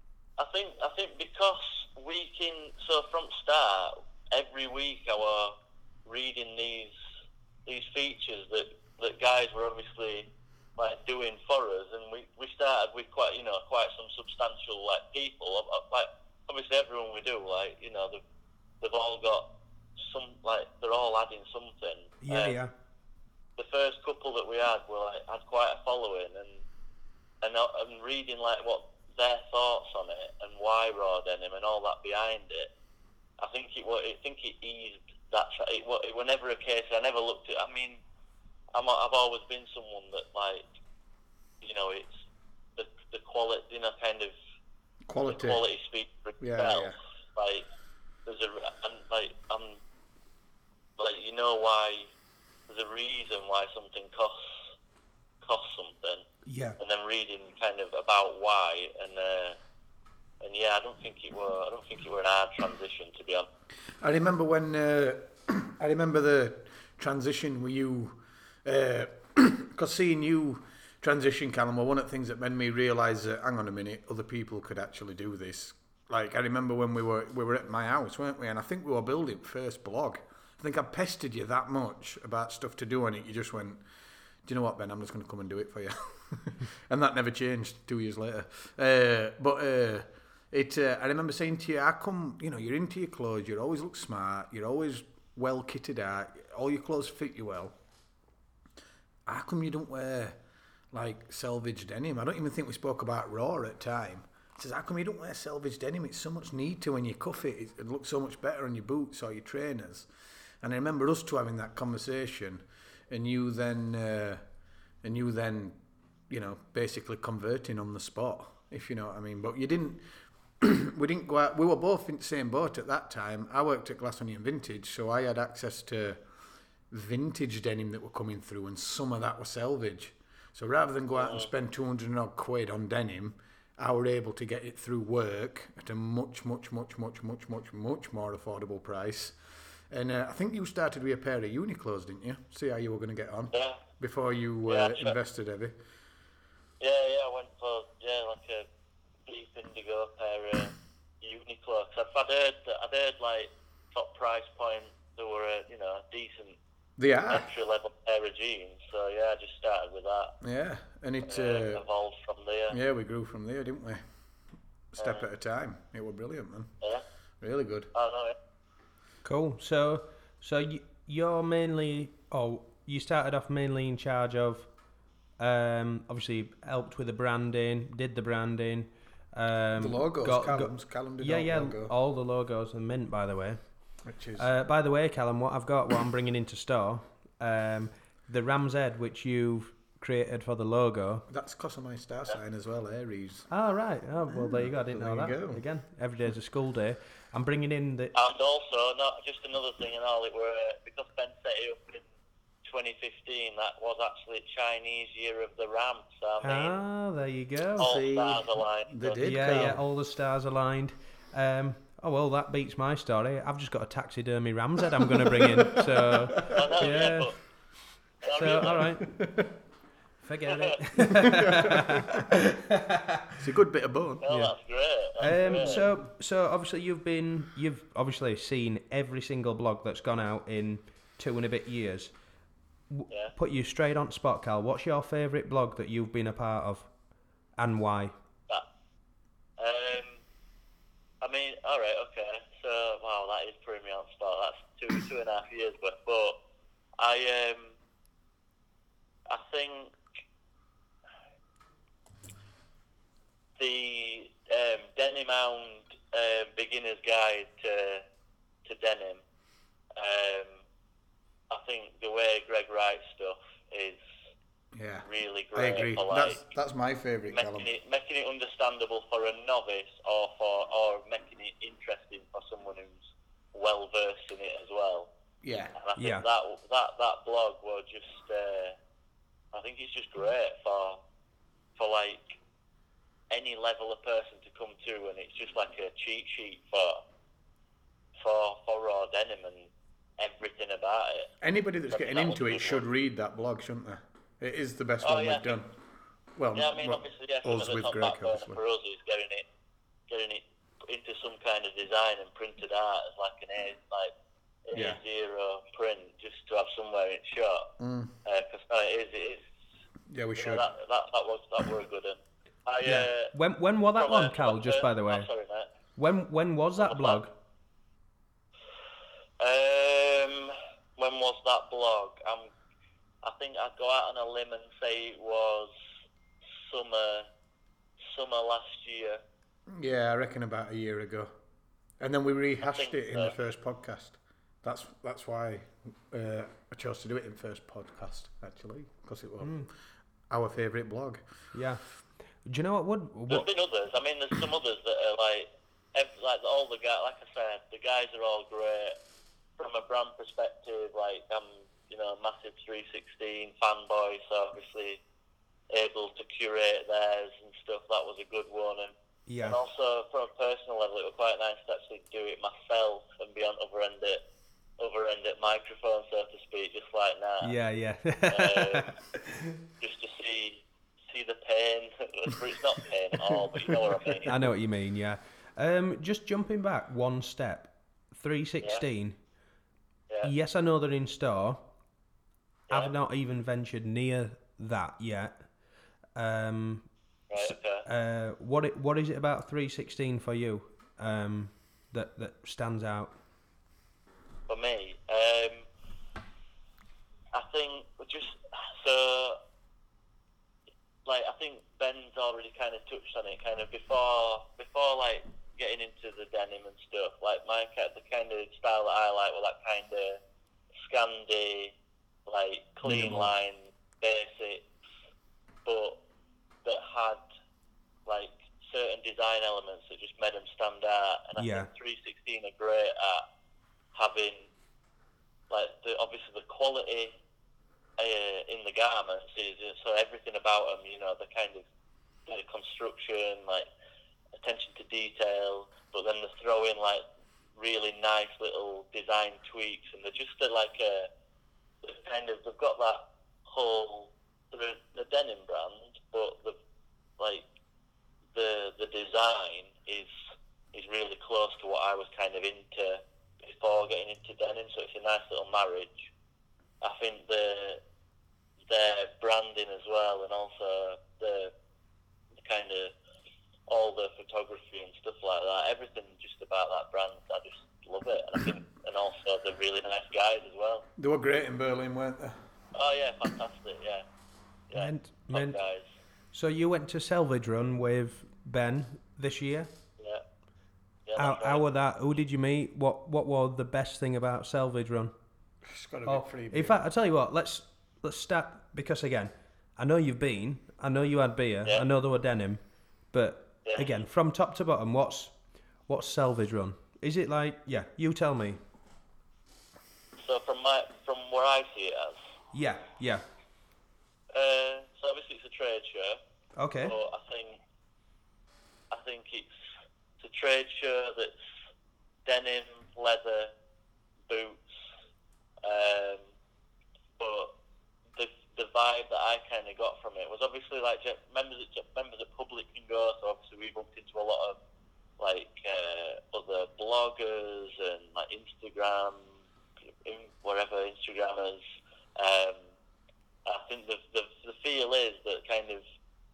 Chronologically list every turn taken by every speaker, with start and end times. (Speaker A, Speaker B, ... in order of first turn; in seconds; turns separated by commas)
Speaker A: 0.4-6.9, Speaker A: 7.7-18.2, Speaker A: 18.8-22.6, Speaker B: 22.2-22.7, Speaker A: 23.6-26.6, Speaker A: 27.4-32.7, Speaker A: 33.4-38.0, Speaker A: 38.7-40.7, Speaker A: 41.6-42.2, Speaker A: 42.8-44.3, Speaker C: 45.1-45.6, Speaker A: 45.3-47.6, Speaker C: 46.4-47.0, Speaker A: 48.2-49.8, Speaker A: 51.0-52.1, Speaker A: 52.7-54.6, Speaker A: 55.4-56.2, Speaker B: 56.5-56.8, Speaker A: 56.8-59.6, Speaker A: 60.4-63.5, Speaker C: 64.0-83.8, Speaker C: 84.4-97.8, Speaker C: 99.2-100.4, Speaker C: 100.9-110.1, Speaker C: 110.6-114.4, Speaker C: 115.0-120.0, Speaker C: 120.6-126.2, Speaker C: 126.9-139.4, Speaker A: 131.1-131.5, Speaker C: 139.9-145.8, Speaker A: 143.5-143.8, Speaker A: 144.7-145.1, Speaker A: 146.8-148.7, Speaker A: 149.2-156.6, Speaker C: 157.0-157.5, Speaker A: 157.3-160.3, Speaker C: 160.4-161.8, Speaker A: 161.2-162.8, Speaker C: 162.7-164.0, Speaker C: 164.9-166.7, Speaker A: 165.0-165.3, Speaker C: 167.4-167.9, Speaker A: 167.9-168.3, Speaker B: 169.2-174.7, Speaker B: 175.4-183.6, Speaker C: 179.8-181.9, Speaker C: 184.0-184.5, Speaker B: 184.4-191.3, Speaker C: 191.3-193.5, Speaker B: 193.5-198.2, Speaker C: 194.3-195.6, Speaker A: 198.1-202.0, Speaker A: 202.6-206.8, Speaker B: 206.4-208.0, Speaker A: 207.8-209.2, Speaker C: 207.8-209.8, Speaker B: 209.2-217.3, Speaker C: 215.4-215.8, Speaker A: 216.4-217.4, Speaker A: 218.2-218.9, Speaker B: 218.2-219.1, Speaker C: 219.0-219.5, Speaker B: 220.2-223.4, Speaker A: 220.5-220.8, Speaker C: 221.2-222.2, Speaker C: 223.4-224.2, Speaker A: 224.2-225.8, Speaker B: 224.3-224.5, Speaker B: 225.2-232.1, Speaker B: 232.9-236.9, Speaker A: 233.1-233.3, Speaker B: 237.6-238.1, Speaker A: 239.6-240.2, Speaker A: 241.2-246.4, Speaker A: 247.0-247.8, Speaker A: 249.3-249.9, Speaker A: 253.6-258.0, Speaker A: 258.6-259.2, Speaker A: 259.9-260.6, Speaker A: 261.5-264.0, Speaker C: 264.7-267.7, Speaker A: 265.0-266.4, Speaker A: 267.3-275.1, Speaker C: 275.4-275.7, Speaker A: 275.7-278.8, Speaker B: 276.0-276.3, Speaker A: 279.5-281.0, Speaker A: 281.8-282.4, Speaker A: 283.3-287.0, Speaker A: 288.2-291.3, Speaker C: 291.4-295.8, Speaker A: 291.9-292.8, Speaker A: 295.0-295.6, Speaker C: 296.4-298.6, Speaker A: 296.5-299.4, Speaker A: 300.1-304.1, Speaker A: 304.6-307.7, Speaker C: 304.7-305.0, Speaker C: 307.8-308.1, Speaker A: 308.2-309.5, Speaker C: 310.1-310.7, Speaker A: 310.4-313.3, Speaker B: 312.8-315.3, Speaker A: 313.9-315.7, Speaker B: 315.9-317.3, Speaker A: 316.8-317.3, Speaker A: 319.4-322.5, Speaker A: 323.2-325.7, Speaker A: 326.6-327.3, Speaker A: 328.0-329.2, Speaker C: 329.7-331.3, Speaker C: 332.0-339.7, Speaker A: 332.6-333.3, Speaker B: 339.4-339.7, Speaker C: 340.3-341.2, Speaker B: 341.5-341.8, Speaker B: 342.4-343.5, Speaker A: 343.3-348.9, Speaker A: 349.6-355.0, Speaker A: 355.7-364.2, Speaker B: 359.3-359.6, Speaker A: 364.8-367.6, Speaker B: 367.4-369.5, Speaker A: 368.3-368.9, Speaker A: 369.8-374.4, Speaker C: 373.6-374.3, Speaker B: 374.2-379.2, Speaker B: 380.2-381.6, Speaker B: 382.7-385.5, Speaker B: 386.1-393.2, Speaker A: 387.3-387.9, Speaker A: 394.5-395.7, Speaker A: 397.3-399.4, Speaker A: 401.0-410.2, Speaker A: 410.8-411.7, Speaker A: 412.3-414.7, Speaker B: 412.8-413.3, Speaker A: 415.6-416.0, Speaker A: 416.6-417.2, Speaker A: 418.1-423.2, Speaker B: 421.4-421.7, Speaker A: 423.9-424.5, Speaker A: 425.5-427.1, Speaker A: 428.0-431.6, Speaker A: 432.2-433.7, Speaker A: 434.4-437.0, Speaker A: 437.6-441.1, Speaker A: 441.8-446.6, Speaker A: 447.2-447.4, Speaker A: 448.3-450.1, Speaker A: 450.7-456.1, Speaker A: 456.8-457.8, Speaker A: 458.7-461.5, Speaker A: 462.4-462.9, Speaker A: 463.7-470.9, Speaker C: 471.0-472.4, Speaker A: 472.7-474.0, Speaker A: 474.7-475.8, Speaker B: 474.7-475.6, Speaker B: 476.3-479.7, Speaker A: 481.1-481.6, Speaker B: 481.1-485.1, Speaker C: 485.6-486.8, Speaker B: 486.1-495.3, Speaker A: 493.6-493.9, Speaker B: 495.9-498.6, Speaker A: 500.2-502.2, Speaker B: 502.5-503.2, Speaker A: 504.3-506.2, Speaker B: 506.6-506.9, Speaker A: 506.8-507.6, Speaker A: 508.9-509.5, Speaker A: 510.2-511.4, Speaker A: 512.2-513.5, Speaker A: 514.3-514.6, Speaker A: 515.6-516.3, Speaker A: 517.2-517.5, Speaker A: 518.1-524.6, Speaker A: 525.2-529.3, Speaker A: 530.0-531.6, Speaker A: 532.2-532.7, Speaker A: 533.5-535.8